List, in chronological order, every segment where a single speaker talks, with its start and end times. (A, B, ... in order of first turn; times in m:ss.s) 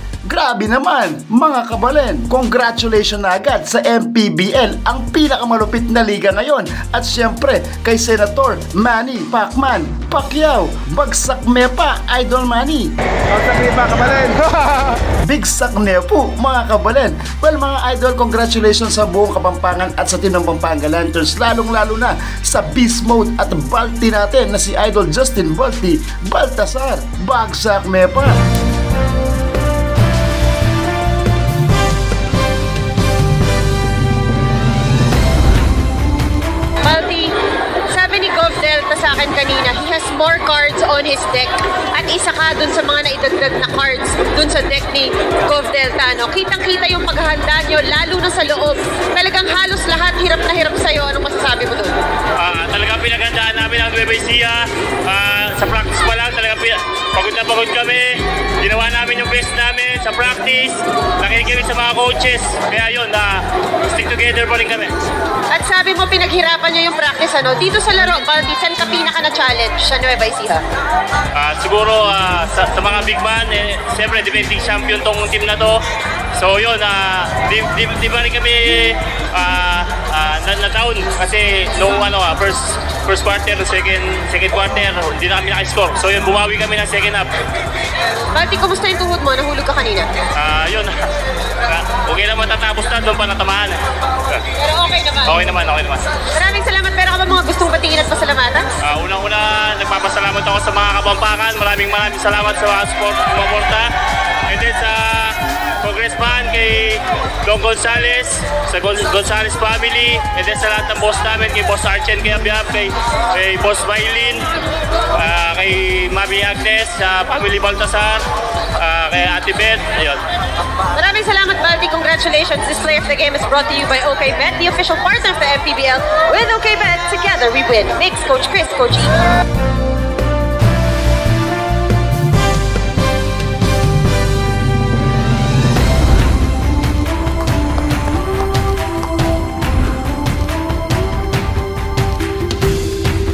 0:00.3-0:28.4 A
0:36.8-0:37.3 B
0:37.9-0:52.0 B
0:52.4-1:04.9 C
1:05.5-1:10.6 B
1:11.4-1:15.8 C
1:16.4-1:27.3 C
1:28.3-1:30.1 B
1:30.4-1:31.0 C
1:31.6-1:33.8 C
1:34.6-1:35.4 B
1:35.2-1:36.2 C
1:36.3-1:38.7 B
1:38.8-1:43.9 C
1:44.5-1:54.5 C
1:55.1-1:58.2 C
1:58.8-2:00.2 C
2:00.9-2:09.2 B